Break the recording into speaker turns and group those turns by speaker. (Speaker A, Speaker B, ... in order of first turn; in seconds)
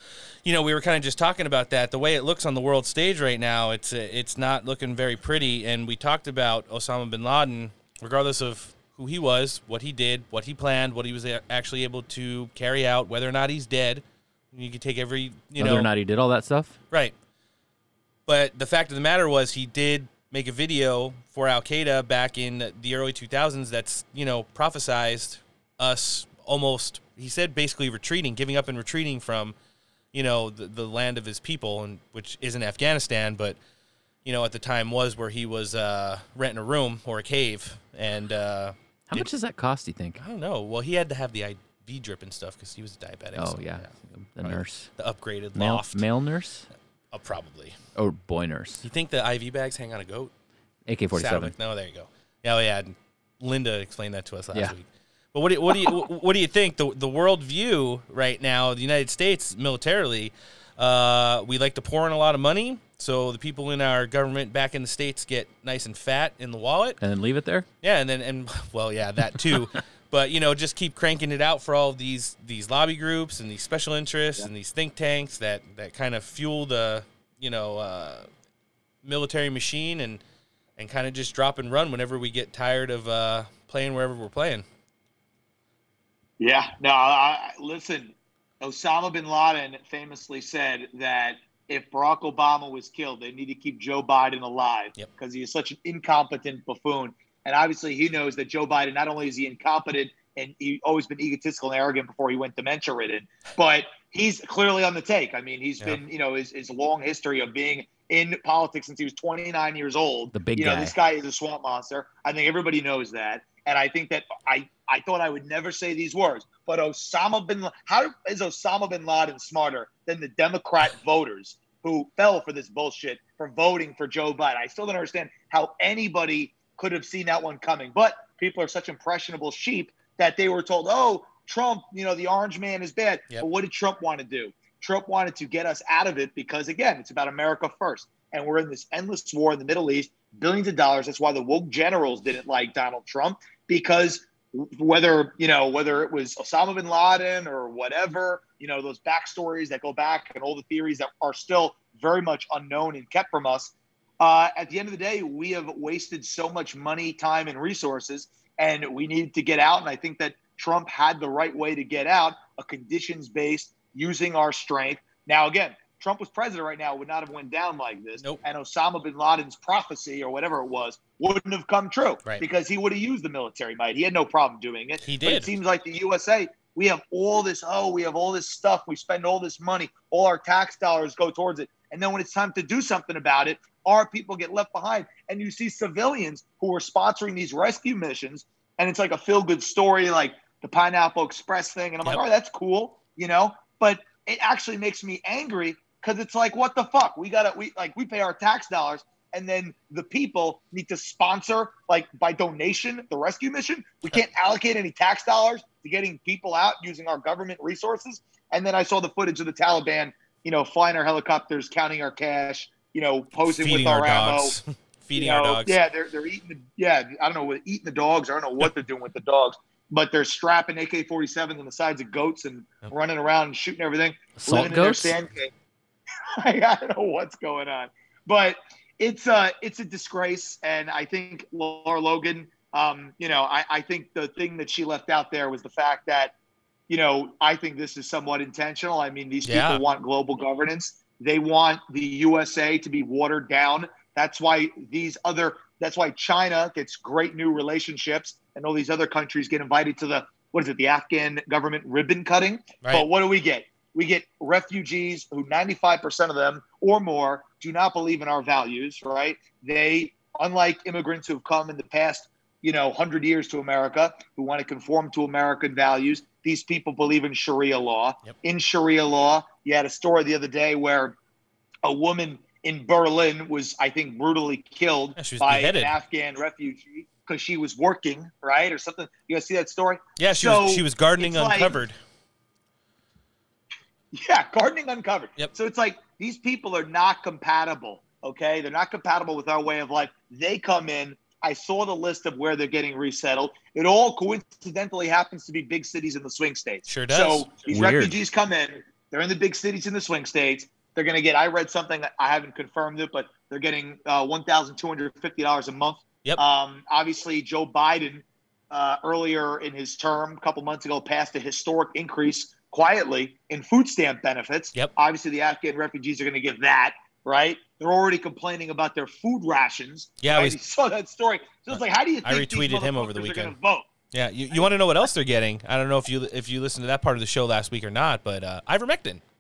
Speaker A: 0.4-15.9, 18.3-29.6, 30.1-33.6, 34.2-39.3, 40.2-46.0, 47.1-47.8, 48.8-50.3, 51.1-67.0, 67.8-78.3, 79.0-80.2, 80.8-84.7, 175.0-175.5, 213.4-215.8, 239.4-239.8, 252.8-253.1, 275.2-275.9, 280.2-281.9, 296.9-297.5, 320.2-320.6, 321.7-323.6, 324.1-329.2
Speaker B: 15.6-16.8, 39.1-40.2, 43.4-44.9, 45.5-46.7, 47.9-48.9, 50.9-51.5, 67.0-67.7, 110.3-110.9, 224.4-225.1, 297.7-298.2
Speaker C: 86.4-214.6, 215.2-225.5, 226.4-236.3, 236.9-271.2, 271.8-281.8, 284.1-323.9